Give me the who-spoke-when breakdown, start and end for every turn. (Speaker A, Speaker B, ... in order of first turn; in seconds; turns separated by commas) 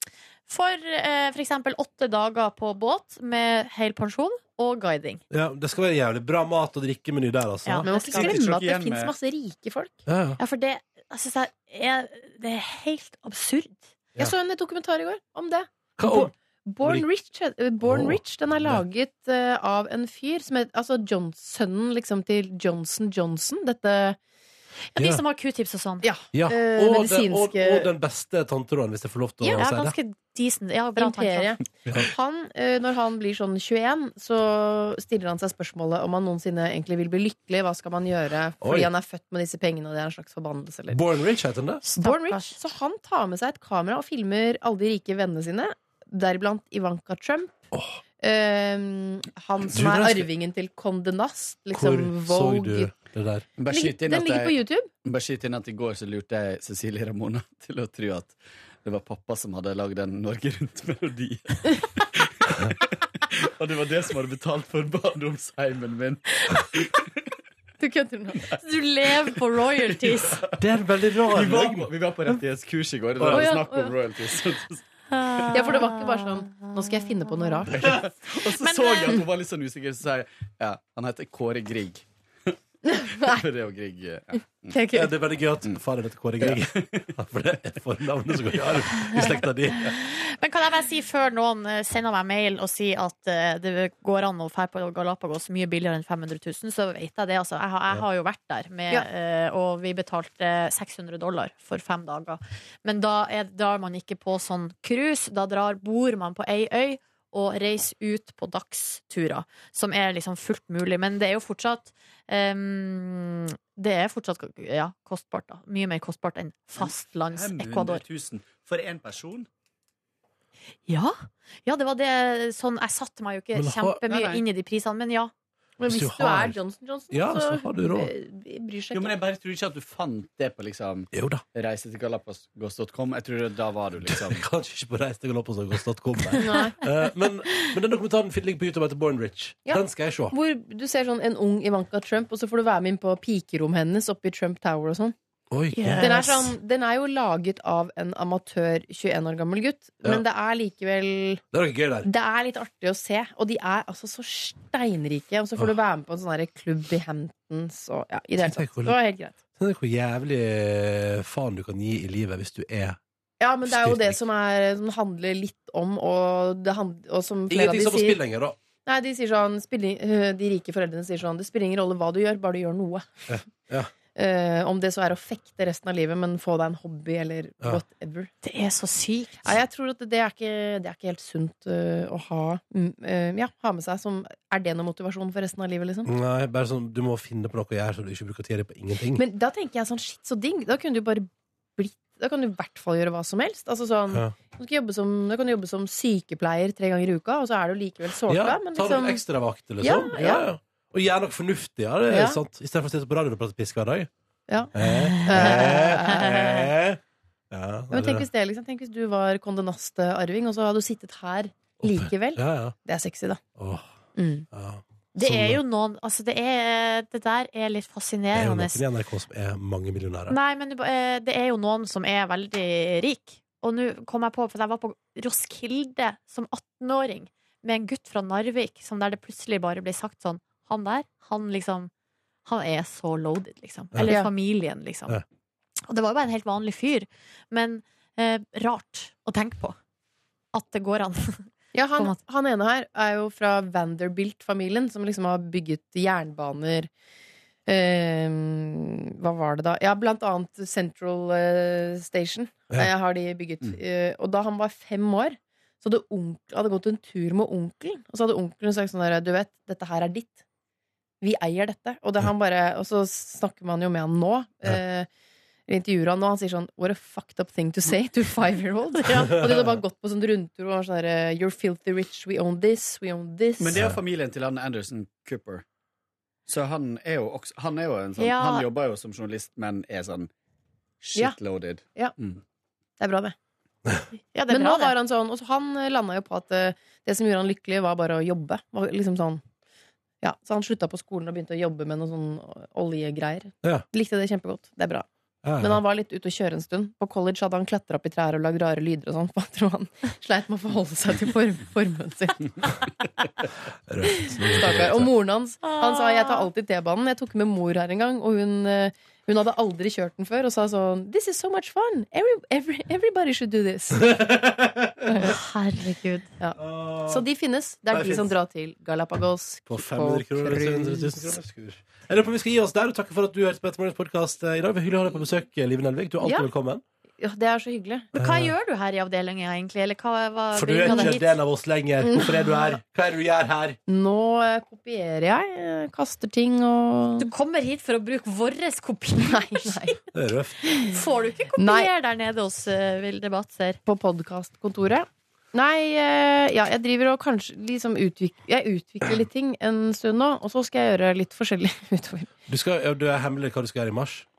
Speaker A: 0.5-5.2, Speaker B: 5.3-8.3, Speaker A: 7.7-8.3, Speaker C: 7.8-10.0, Speaker D: 8.0-9.1, Speaker B: 10.1-10.4, Speaker A: 10.4-13.9, Speaker C: 14.2-24.2, Speaker B: 16.0-16.3, Speaker B: 17.8-18.8, Speaker A: 24.9-26.1, Speaker C: 26.0-27.9, Speaker B: 26.3-29.9, Speaker A: 29.4-31.6, Speaker C: 31.0-41.0, Speaker B: 38.6-38.9, Speaker B: 40.9-41.8, Speaker A: 41.9-42.6, Speaker C: 42.0-47.7, Speaker C: 48.2-52.9, Speaker B: 49.7-50.3, Speaker B: 51.8-53.5, Speaker D: 53.6-63.0, Speaker C: 53.7-54.9, Speaker D: 63.6-66.9, Speaker C: 67.8-68.4, Speaker A: 68.6-70.4, Speaker D: 69.8-70.6, Speaker B: 70.6-71.9, Speaker D: 71.2-74.8, Speaker B: 73.2-73.5, Speaker C: 73.3-73.9, Speaker A: 75.1-77.6, Speaker C: 75.5-77.9, Speaker D: 77.7-82.6, Speaker A: 78.5-79.2, Speaker C: 82.8-83.4, Speaker D: 83.2-84.8, Speaker C: 84.7-85.2, Speaker B: 84.9-90.0, Speaker D: 86.4-87.1, Speaker D: 88.3-88.8, Speaker A: 89.9-118.0, Speaker D: 116.8-119.5, Speaker A: 120.9-125.3, Speaker B: 123.5-124.0, Speaker C: 124.1-124.4, Speaker C: 125.8-129.1, Speaker B: 125.9-126.6, Speaker B: 127.1-128.1, Speaker D: 128.9-134.4, Speaker B: 131.1-131.4, Speaker B: 134.1-140.3, Speaker C: 136.4-136.8, Speaker C: 139.7-145.2, Speaker B: 145.5-146.5, Speaker A: 145.8-146.4, Speaker C: 146.0-151.4, Speaker B: 151.5-152.1, Speaker C: 152.0-159.3, Speaker B: 158.4-159.0, Speaker B: 159.6-163.0, Speaker C: 163.4-168.2, Speaker B: 163.7-164.2, Speaker B: 167.5-168.6, Speaker C: 168.9-173.4, Speaker B: 173.3-173.9, Speaker C: 174.1-178.3, Speaker A: 178.4-179.6, Speaker C: 179.4-186.1, Speaker B: 186.1-189.2, Speaker C: 189.2-199.2, Speaker B: 198.3-204.1, Speaker C: 199.8-200.4, Speaker C: 202.1-202.4, Speaker C: 204.5-204.7, Speaker B: 204.7-207.0, Speaker A: 204.9-206.6, Speaker C: 205.2-206.3, Speaker B: 207.5-208.3, Speaker C: 207.9-213.4, Speaker B: 211.8-212.8, Speaker B: 213.6-213.9, Speaker C: 214.2-214.4, Speaker B: 214.5-215.6, Speaker A: 215.2-218.8, Speaker B: 218.3-220.4, Speaker A: 220.3-231.9, Speaker A: 232.4-235.2, Speaker A: 235.8-239.8, Speaker A: 240.5-242.2, Speaker C: 241.7-246.9, Speaker C: 247.7-260.4, Speaker C: 261.2-265.1, Speaker C: 265.7-273.9, Speaker A: 269.0-269.6, Speaker D: 273.6-275.6, Speaker D: 276.5-280.3, Speaker A: 278.2-278.7, Speaker D: 281.0-282.4, Speaker C: 283.0-283.4, Speaker A: 284.3-284.9, Speaker C: 284.5-289.4, Speaker C: 290.2-295.1, Speaker B: 295.4-295.8, Speaker C: 295.6-302.8, Speaker B: 303.9-305.1, Speaker C: 304.1-314.1, Speaker A: 305.6-306.5, Speaker B: 314.0-315.3, Speaker C: 315.1-315.4, Speaker A: 315.2-316.3, Speaker C: 316.4-321.4, Speaker B: 316.6-317.2, Speaker B: 317.9-318.3, Speaker B: 319.7-326.8, Speaker C: 326.2-326.5, Speaker C: 327.2-328.1, Speaker A: 328.1-331.3, Speaker B: 328.2-328.5, Speaker B: 330.5-333.8, Speaker C: 330.9-331.2, Speaker C: 332.1-332.4, Speaker C: 333.9-337.3, Speaker A: 337.2-339.9, Speaker C: 339.2-340.0, Speaker B: 340.1-340.6, Speaker C: 340.6-341.0, Speaker A: 340.8-343.8, Speaker C: 341.6-341.9, Speaker C: 343.9-352.3, Speaker B: 352.5-354.3